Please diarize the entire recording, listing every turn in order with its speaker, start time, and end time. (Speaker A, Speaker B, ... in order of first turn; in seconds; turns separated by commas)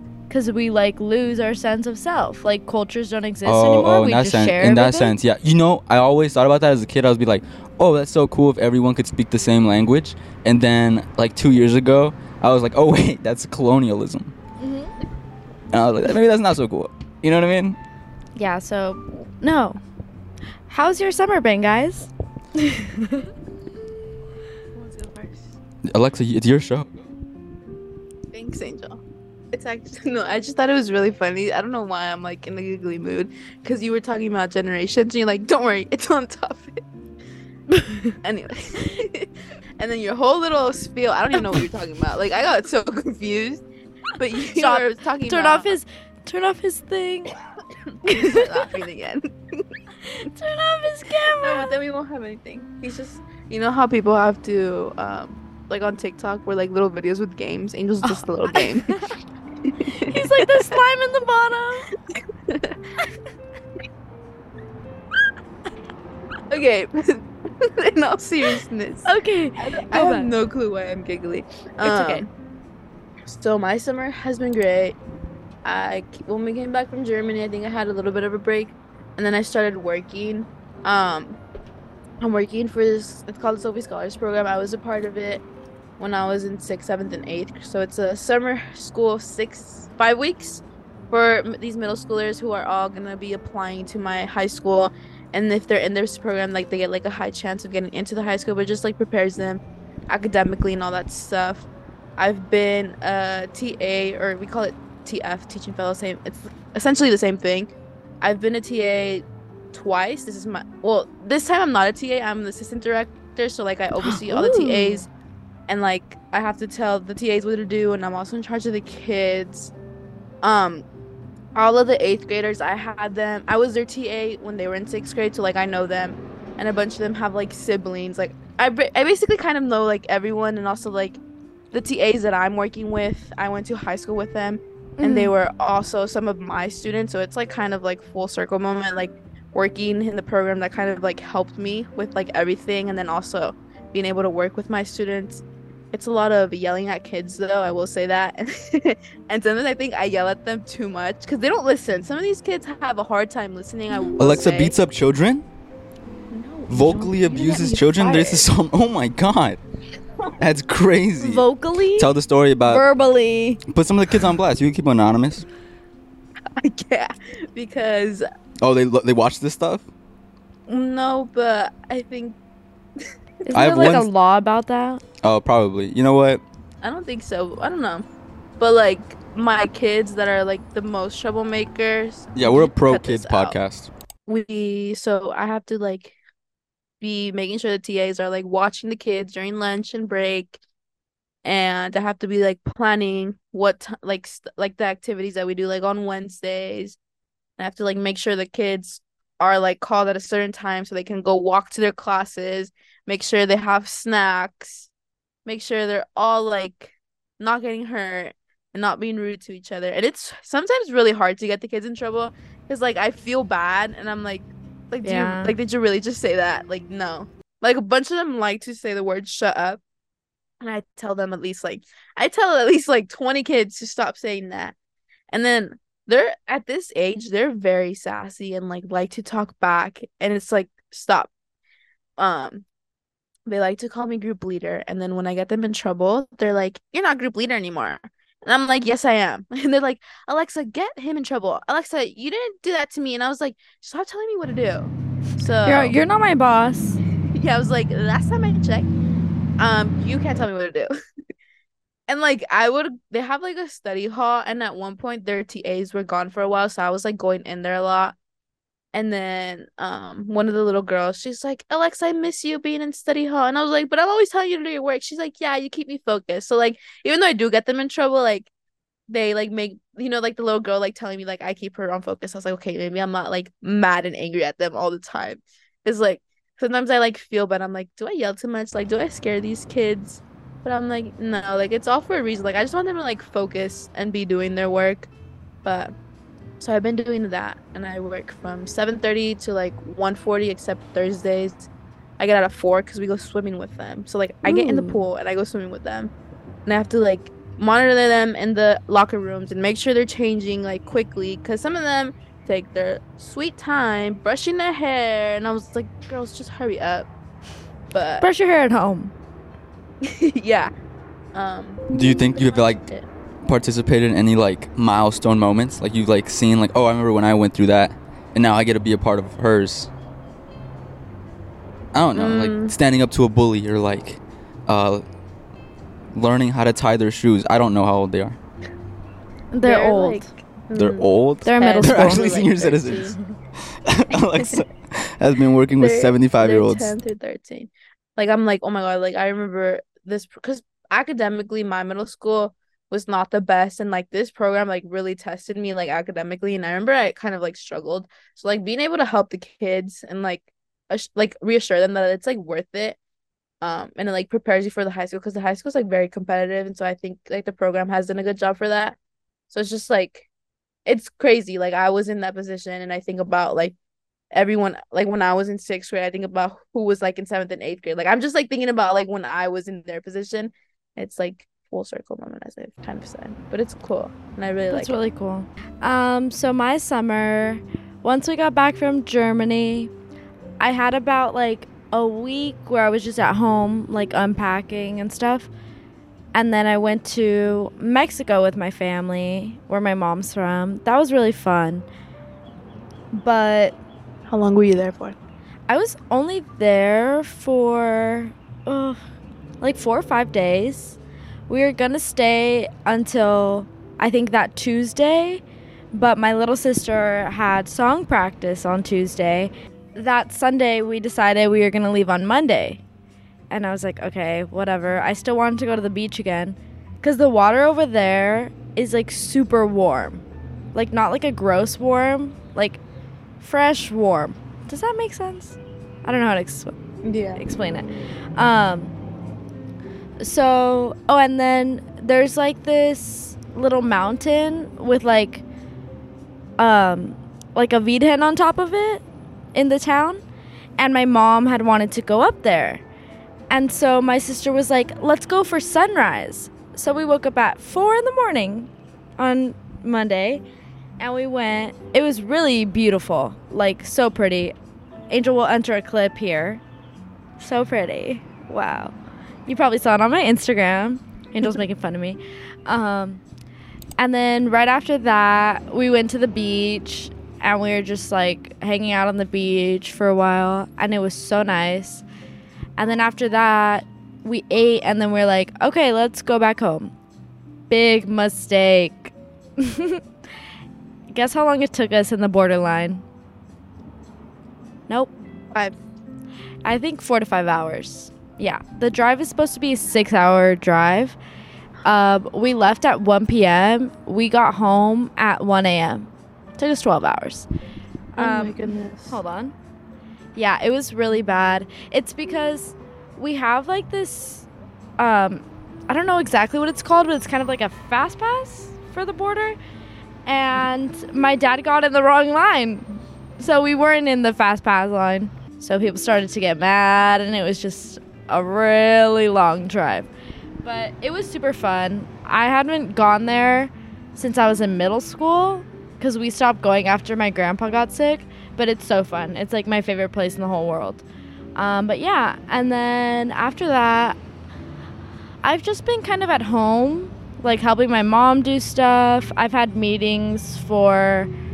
Speaker A: 0.3-5.1, Speaker B: 3.4-14.3, Speaker A: 14.6-14.9, Speaker B: 15.7-17.8, Speaker A: 18.4-19.8, Speaker A: 20.7-23.3, Speaker C: 24.7-25.5, Speaker B: 25.9-26.9, Speaker C: 28.3-36.8, Speaker A: 37.7-38.1, Speaker C: 38.2-43.6, Speaker C: 44.2-45.8, Speaker A: 44.5-47.4, Speaker C: 47.6-49.7, Speaker A: 48.0-48.6, Speaker A: 50.0-51.7, Speaker C: 51.4-59.0, Speaker A: 58.0-59.1, Speaker C: 59.6-60.8, Speaker A: 59.9-61.9, Speaker C: 62.1-62.9, Speaker C: 66.5-72.3, Speaker A: 69.0-70.3, Speaker A: 71.8-72.2, Speaker C: 73.2-75.0, Speaker C: 75.6-81.4, Speaker C: 82.2-85.4, Speaker C: 86.0-115.1, Speaker A: 114.0-115.0, Speaker C: 115.7-119.7, Speaker C: 120.4-120.8, Speaker C: 121.5-131.2, Speaker C: 131.7-154.8, Speaker A: 135.0-135.3, Speaker B: 154.2-155.4, Speaker C: 156.3-158.5, Speaker B: 156.7-159.6, Speaker B: 160.4-162.8, Speaker A: 161.2-162.1, Speaker A: 162.6-163.6, Speaker B: 163.7-165.4, Speaker C: 166.6-168.2, Speaker B: 168.6-169.8, Speaker C: 170.7-172.4, Speaker A: 173.4-175.0, Speaker C: 173.5-174.0, Speaker B: 173.5-174.1, Speaker B: 175.2-176.4, Speaker C: 176.8-178.1, Speaker C: 178.6-183.6, Speaker B: 182.3-183.9, Speaker C: 184.3-186.2, Speaker C: 187.0-190.6, Speaker C: 191.4-197.0, Speaker C: 197.6-204.9, Speaker C: 205.4-219.8, Speaker A: 215.0-215.5, Speaker C: 220.6-224.7, Speaker C: 225.3-231.3, Speaker C: 232.2-232.6, Speaker C: 233.5-246.0, Speaker A: 245.6-247.0, Speaker C: 247.3-248.9, Speaker C: 249.6-250.9, Speaker C: 252.1-258.1, Speaker C: 258.9-268.5, Speaker C: 269.1-285.1, Speaker C: 285.6-285.9, Speaker C: 286.6-296.1, Speaker A: 294.4-295.0, Speaker C: 296.6-307.1, Speaker C: 307.9-308.3, Speaker A: 308.2-309.1, Speaker C: 310.0-310.7, Speaker C: 311.3-313.1, Speaker B: 311.9-312.8, Speaker B: 313.4-319.9, Speaker B: 321.9-325.0, Speaker C: 322.1-322.7, Speaker B: 326.1-328.4, Speaker A: 329.5-330.3, Speaker C: 329.6-333.1, Speaker B: 330.7-333.1, Speaker A: 331.4-332.3, Speaker B: 333.8-336.9, Speaker C: 335.8-353.0, Speaker C: 353.6-359.0, Speaker C: 359.5-360.3, Speaker C: 360.9-363.8, Speaker C: 364.3-374.9, Speaker A: 374.7-379.9, Speaker A: 380.6-385.5, Speaker A: 386.3-391.9, Speaker A: 393.1-393.8, Speaker C: 394.3-395.1, Speaker A: 395.7-399.0, Speaker A: 399.6-401.0, Speaker A: 401.5-412.8, Speaker A: 413.5-422.8, Speaker A: 423.4-426.7, Speaker C: 427.0-427.4, Speaker A: 427.4-428.9, Speaker A: 430.2-435.4, Speaker A: 436.6-440.2, Speaker A: 440.8-442.8, Speaker A: 443.5-450.4, Speaker A: 451.0-454.5, Speaker A: 455.1-456.6, Speaker A: 457.4-458.9, Speaker A: 459.5-463.2, Speaker A: 464.0-472.0, Speaker A: 472.8-476.9, Speaker A: 477.7-480.0, Speaker A: 481.1-483.0, Speaker A: 486.6-491.2, Speaker A: 491.8-497.5, Speaker C: 498.1-499.2, Speaker A: 498.1-499.5, Speaker A: 500.3-504.5, Speaker A: 505.0-509.6, Speaker A: 510.2-520.1, Speaker A: 520.6-531.0, Speaker A: 531.5-534.2, Speaker A: 535.4-541.3